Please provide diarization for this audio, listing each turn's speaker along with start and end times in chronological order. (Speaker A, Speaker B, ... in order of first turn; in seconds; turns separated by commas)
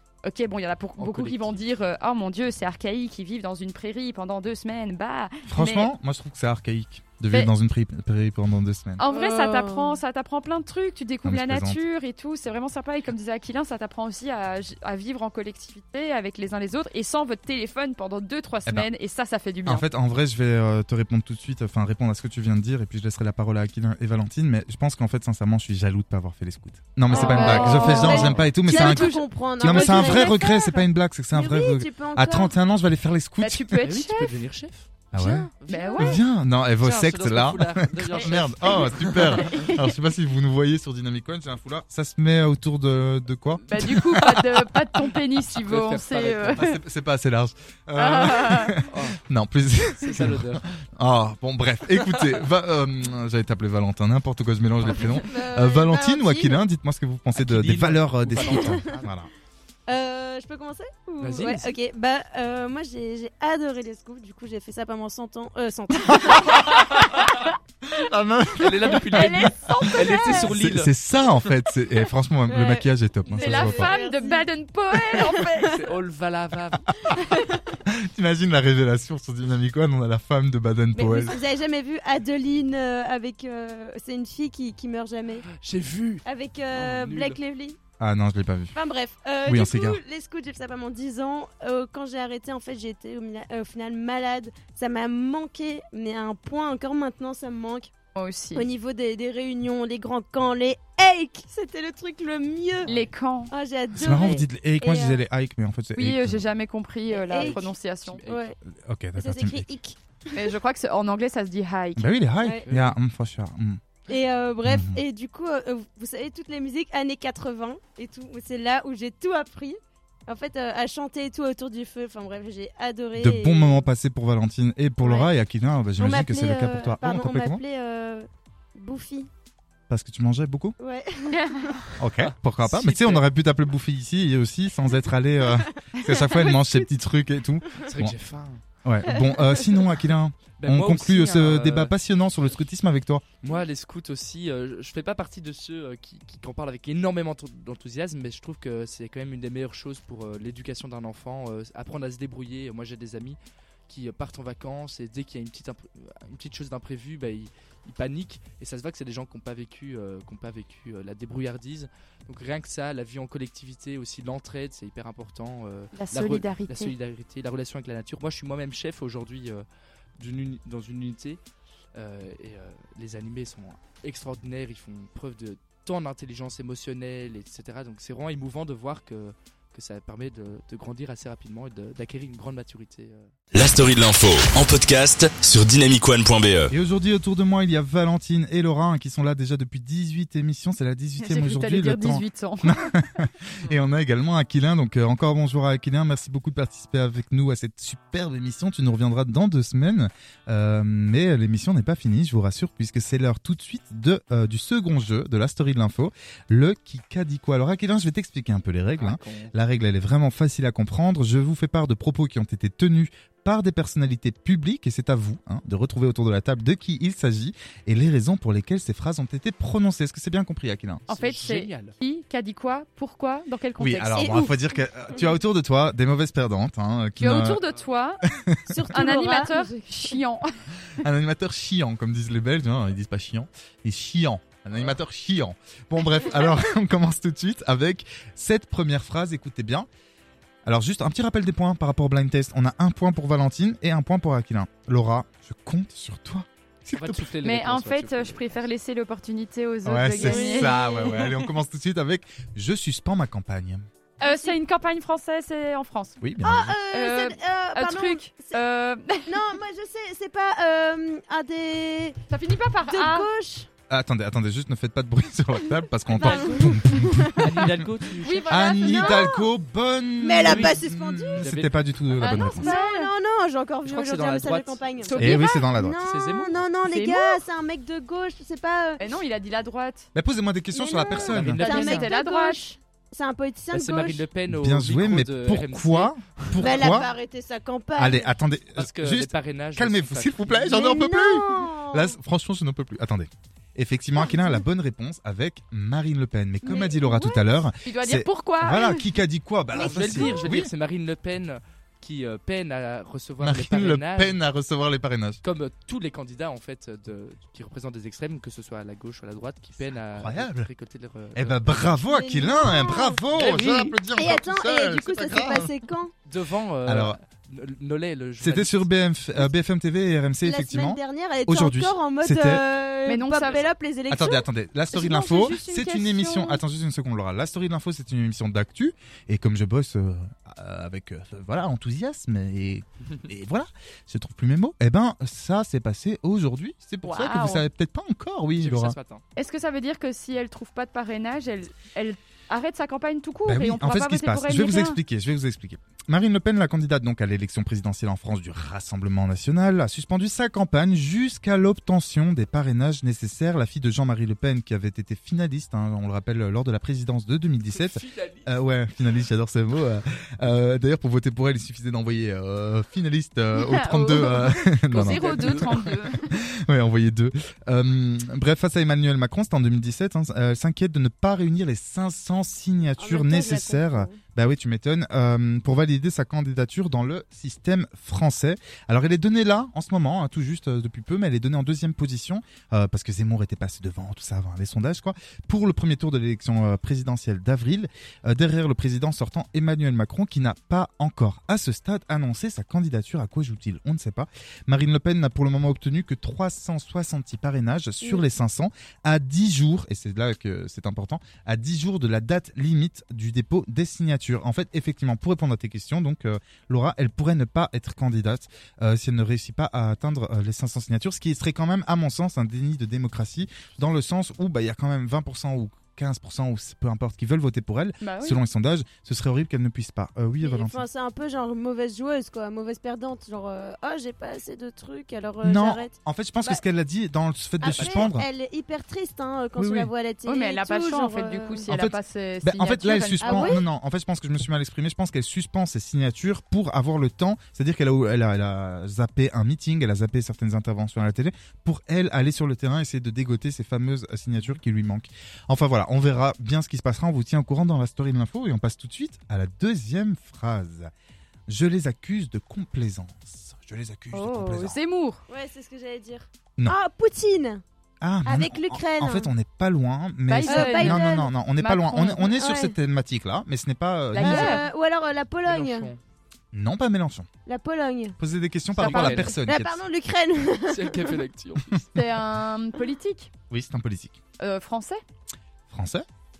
Speaker A: 0.2-5.9, Speaker B: 1.0-1.6, Speaker C: 5.5-9.0, Speaker A: 9.0-19.8, Speaker D: 9.1-10.0, Speaker C: 11.2-11.8, Speaker C: 19.6-33.8, Speaker A: 27.1-30.7, Speaker D: 27.1-32.5, Speaker B: 27.1-28.4, Speaker A: 33.4-34.3, Speaker B: 33.8-36.2, Speaker C: 35.1-44.7, Speaker A: 35.7-36.2, Speaker B: 36.8-39.7, Speaker A: 38.2-39.8, Speaker A: 43.7-46.8, Speaker B: 45.5-46.6, Speaker C: 46.5-59.3, Speaker A: 48.0-48.8, Speaker B: 48.8-49.2, Speaker B: 49.9-50.6, Speaker B: 52.0-52.3, Speaker B: 54.8-55.2, Speaker D: 54.9-56.6, Speaker B: 57.3-59.1, Speaker D: 58.4-58.9, Speaker D: 59.9-66.8, Speaker B: 61.2-61.7, Speaker C: 66.1-66.9, Speaker C: 67.8-73.9, Speaker B: 68.5-70.9, Speaker D: 69.1-70.5, Speaker A: 69.3-70.4, Speaker D: 72.5-75.7, Speaker A: 73.3-75.8, Speaker B: 75.6-77.0, Speaker D: 77.2-77.6, Speaker C: 77.8-81.4, Speaker D: 80.9-85.5, Speaker B: 85.5-87.4, Speaker D: 86.2-87.8, Speaker C: 88.0-88.7, Speaker D: 88.7-97.9, Speaker C: 89.4-90.0, Speaker A: 98.1-98.7, Speaker D: 98.5-102.9, Speaker A: 102.9-103.5, Speaker D: 103.5-105.2, Speaker C: 104.0-106.5, Speaker A: 106.0-108.2, Speaker D: 107.1-107.7, Speaker B: 107.3-108.4, Speaker D: 108.2-108.6, Speaker C: 108.7-109.7, Speaker D: 109.2-110.5, Speaker A: 110.3-112.1, Speaker C: 112.0-113.8, Speaker D: 112.4-112.7, Speaker B: 112.7-113.0, Speaker D: 114.1-123.8, Speaker C: 114.7-115.0, Speaker C: 123.2-127.6, Speaker D: 125.0-125.3, Speaker D: 126.0-129.3, Speaker C: 129.9-130.8, Speaker D: 130.8-131.8, Speaker A: 131.3-131.7, Speaker C: 132.0-138.2, Speaker B: 132.0-133.2, Speaker D: 136.0-136.9, Speaker B: 137.8-138.6, Speaker C: 138.8-143.2, Speaker D: 139.1-139.8, Speaker B: 140.6-141.9, Speaker B: 143.4-169.6, Speaker A: 165.9-166.9, Speaker B: 170.2-171.4, Speaker B: 171.9-183.3, Speaker E: 183.5-186.7, Speaker C: 186.7-221.0, Speaker A: 191.2-192.9, Speaker B: 209.0-209.5, Speaker A: 221.1-224.4, Speaker B: 221.1-221.9, Speaker C: 223.8-227.6, Speaker D: 224.1-224.6, Speaker A: 227.2-228.2, Speaker C: 228.3-228.7, Speaker D: 228.7-230.2, Speaker A: 228.9-231.0, Speaker C: 231.0-239.9, Speaker C: 240.6-247.3, Speaker B: 246.9-248.6, Speaker A: 247.4-250.9, Speaker C: 249.8-253.8, Speaker D: 250.1-251.4, Speaker A: 254.2-256.2, Speaker D: 254.2-254.6, Speaker C: 256.2-256.7, Speaker D: 256.4-258.6, Speaker A: 256.9-259.4, Speaker D: 259.3-262.2, Speaker A: 262.3-263.3, Speaker D: 262.9-263.7, Speaker C: 263.9-267.7, Speaker D: 266.1-267.7, Speaker B: 266.1-266.7, Speaker B: 267.4-268.6, Speaker A: 268.2-269.4, Speaker C: 268.5-272.8, Speaker D: 268.6-269.4, Speaker D: 270.2-271.4, Speaker B: 270.4-270.8, Speaker B: 271.4-271.8, Speaker A: 272.2-273.1, Speaker D: 272.2-279.0, Speaker B: 273.8-275.3, Speaker A: 275.0-275.7, Speaker C: 275.2-276.0, Speaker B: 276.0-276.6, Speaker A: 276.8-277.4, Speaker A: 279.0-280.1, Speaker C: 280.1-281.6, Speaker D: 280.7-284.2, Speaker B: 281.2-282.1, Speaker A: 281.6-282.6, Speaker B: 283.7-287.0, Speaker C: 284.5-287.1, Speaker D: 286.6-288.3, Speaker C: 288.0-300.7, Speaker B: 288.8-290.9, Speaker D: 290.7-292.1, Speaker D: 294.2-294.6, Speaker D: 296.6-297.4, Speaker A: 297.8-299.1, Speaker D: 299.7-300.5, Speaker B: 299.7-304.4, Speaker C: 303.4-305.4, Speaker B: 305.4-311.9, Speaker C: 310.1-310.7, Speaker C: 311.3-315.7, Speaker D: 311.9-313.5, Speaker B: 313.3-314.0, Speaker D: 314.1-316.1, Speaker B: 316.3-318.9, Speaker C: 316.9-317.2, Speaker C: 318.4-322.6, Speaker D: 320.4-324.4, Speaker A: 323.1-323.7, Speaker C: 324.1-338.9, Speaker D: 324.9-326.0, Speaker A: 325.0-326.6, Speaker A: 337.0-337.6, Speaker B: 338.6-339.2, Speaker A: 339.4-345.0, Speaker C: 343.4-420.8, Speaker B: 357.7-358.6, Speaker A: 363.5-366.3, Speaker B: 364.9-365.9, Speaker D: 373.0-374.2, Speaker A: 418.0-418.4, Speaker D: 420.4-426.6, Speaker C: 425.4-428.3, Speaker D: 427.6-431.7, Speaker B: 427.6-428.1, Speaker C: 429.6-429.9, Speaker A: 430.2-433.6, Speaker C: 431.7-450.9, Speaker D: 433.2-433.6, Speaker C: 451.5-454.8, Speaker A: 454.1-455.2, Speaker D: 455.3-457.6, Speaker C: 458.0-464.6, Speaker D: 458.2-459.3, Speaker A: 460.3-462.3, Speaker D: 460.4-461.3, Speaker D: 462.3-462.7, Speaker A: 464.1-464.6, Speaker D: 464.2-465.9, Speaker B: 465.4-466.0, Speaker C: 466.5-467.3, Speaker D: 467.4-468.2, Speaker C: 468.2-469.8, Speaker B: 468.8-469.3, Speaker A: 468.8-469.4, Speaker D: 469.4-471.2, Speaker B: 470.7-471.8, Speaker A: 471.9-473.3, Speaker C: 473.5-474.2, Speaker A: 474.4-475.0, Speaker C: 475.7-476.1